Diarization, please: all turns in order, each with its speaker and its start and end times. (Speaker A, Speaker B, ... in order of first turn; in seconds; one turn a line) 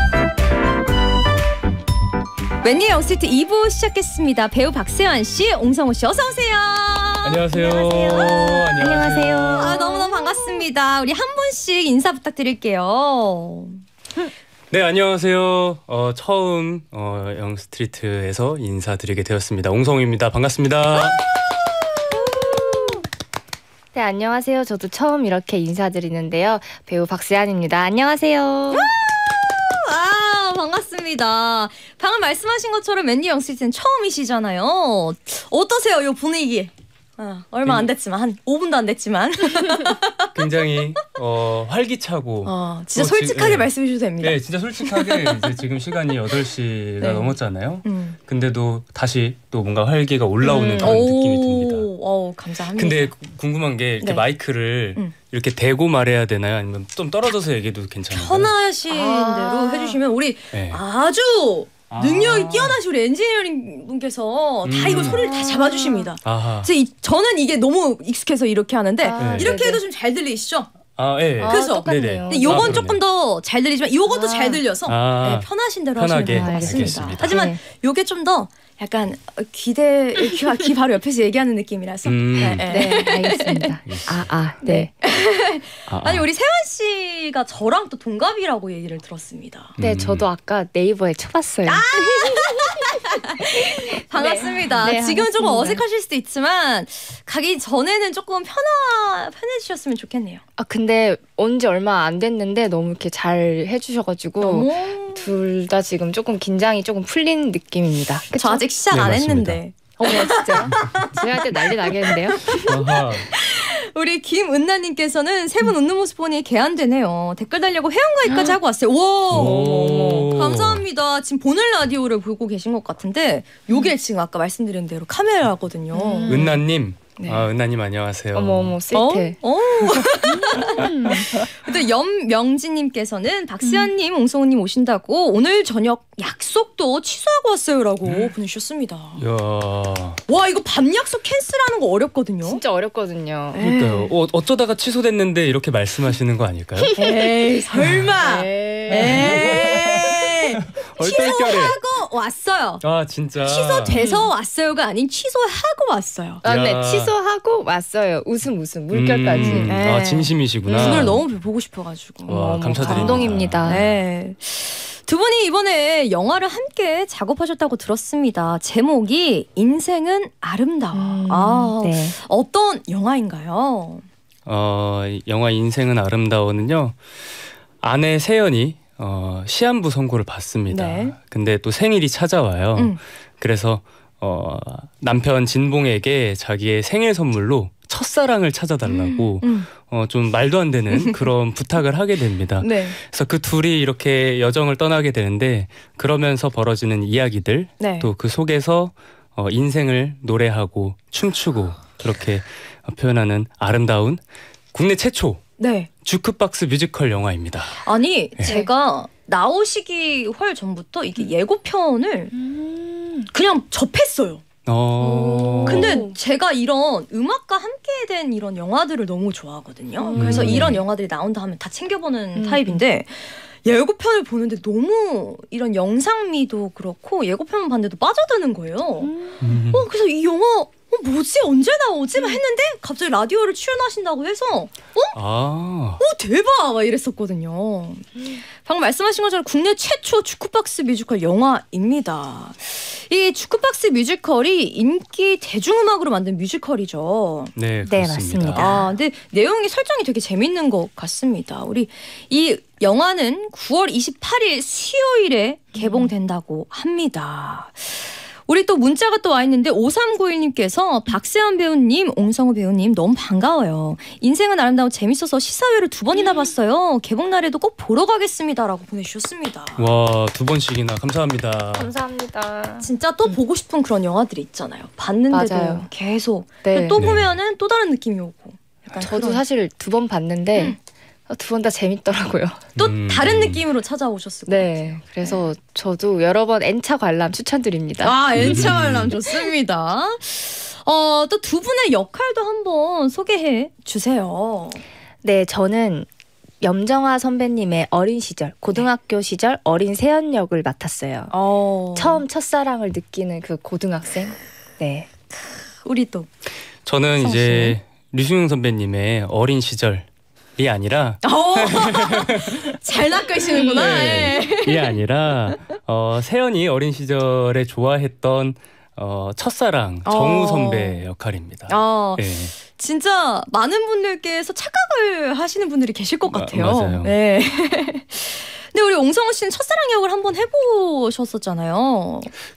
Speaker A: 2.6-8.6
Speaker B: 7.2-9.8
Speaker C: 7.5-10.7
Speaker A: 9.6-13.8
Speaker B: 14.7-21.2
Speaker A: 21.0-23.0
Speaker C: 22.2-22.9
Speaker C: 23.9-28.9
Speaker A: 28.7-40.3
Speaker B: 37.6-37.9
Speaker B: 40.3-51.9
Speaker A: 42.4-45.6
Speaker A: 47.0-48.2
Speaker C: 50.4-51.0
Speaker A: 50.8-53.1
Speaker B: 52.8-58.5
Speaker A: 58.1-70.7
Speaker C: 58.9-60.0
Speaker B: 60.5-60.8
Speaker B: 61.9-62.8
Speaker B: 64.6-65.2
Speaker C: 64.8-66.1
Speaker B: 66.2-66.7
Speaker C: 69.0-69.8
Speaker B: 69.2-69.5
Speaker B: 71.0-73.0
Speaker C: 71.4-72.8
Speaker A: 71.4-83.7
Speaker C: 74.1-74.6
Speaker B: 74.9-77.4
Speaker C: 76.2-77.6
Speaker B: 82.0-83.0
Speaker C: 82.6-84.9
Speaker B: 83.8-84.2
Speaker A: 84.6-89.8
Speaker B: 85.9-86.3
Speaker B: 89.8-90.2
Speaker C: 89.8-95.8
Speaker A: 91.7-100.4
Speaker C: 100.6-108.6
Speaker A: 104.4-105.3
Speaker A: 108.3-112.7
Speaker B: 108.9-109.6
Speaker C: 110.0-112.7
Speaker B: 112.5-113.3
Speaker A: 113.3-126.6
Speaker C: 118.3-118.6
Speaker B: 119.3-120.8
Speaker C: 119.3-120.4
Speaker C: 125.9-126.5
Speaker B: 126.3-128.7
Speaker C: 127.2-127.5
Speaker C: 128.3-129.4
Speaker A: 128.9-139.2
Speaker C: 130.2-131.4
Speaker C: 133.6-133.9
Speaker B: 138.0-138.3
Speaker B: 139.2-140.2
Speaker A: 140.3-142.6
Speaker C: 142.4-143.7
Speaker A: 143.5-144.1
Speaker B: 143.6-146.9
Speaker C: 146.8-149.7
Speaker A: 146.9-152.8
Speaker B: 148.9-151.8
Speaker B: 152.8-154.0
Speaker A: 153.4-156.4
Speaker C: 153.9-154.3
Speaker B: 156.4-157.1
Speaker C: 156.4-159.9
Speaker B: 158.9-161.2
Speaker A: 159.4-174.1
Speaker C: 160.6-161.2
Speaker C: 162.3-163.8
Speaker B: 162.3-164.0
Speaker C: 170.9-172.1
Speaker B: 174.4-177.0
Speaker B: 177.8-204.2
Speaker A: 180.7-181.1
Speaker A: 188.8-189.7
Speaker A: 190.9-191.2
Speaker A: 192.6-193.0
Speaker A: 197.8-198.1
Speaker B: 204.7-205.4
Speaker A: 205.6-205.9
Speaker B: 206.0-207.8
Speaker A: 207.8-212.3
Speaker C: 212.3-213.3
Speaker A: 213.3-214.4
Speaker B: 214.7-216.0
Speaker C: 215.0-216.2
Speaker A: 215.6-229.1
Speaker C: 220.0-220.8
Speaker B: 220.2-220.8
Speaker C: 222.3-222.8
Speaker C: 229.0-229.5
Speaker B: 229.4-229.9
Speaker A: 229.7-235.1
Speaker B: 235.1-236.0
Speaker A: 236.0-247.5
Speaker B: 247.5-248.8
Speaker C: 247.8-248.9
Speaker A: 248.5-269.9
Speaker C: 255.7-256.1
Speaker C: 266.1-266.5
Speaker B: 269.8-271.9
Speaker C: 271.8-273.3
Speaker A: 272.8-279.4
Speaker C: 275.3-275.9
Speaker C: 276.6-277.1
Speaker B: 277.0-277.3
Speaker C: 278.9-280.8
Speaker C: 281.3-282.6
Speaker A: 282.8-285.4
Speaker B: 282.8-283.6
Speaker C: 284.5-288.7
Speaker A: 288.0-294.8
Speaker B: 288.4-289.1
Speaker C: 295.2-296.1
Speaker C: 296.6-301.3
Speaker A: 301.3-302.2
Speaker C: 301.9-305.1
Speaker A: 305.8-306.3
Speaker B: 306.8-310.1
Speaker A: 307.2-307.7
Speaker B: 310.6-312.7
Speaker A: 311.2-314.9
Speaker B: 313.6-322.5
Speaker A: 320.0-321.0
Speaker A: 321.7-332.3
Speaker B: 326.3-327.1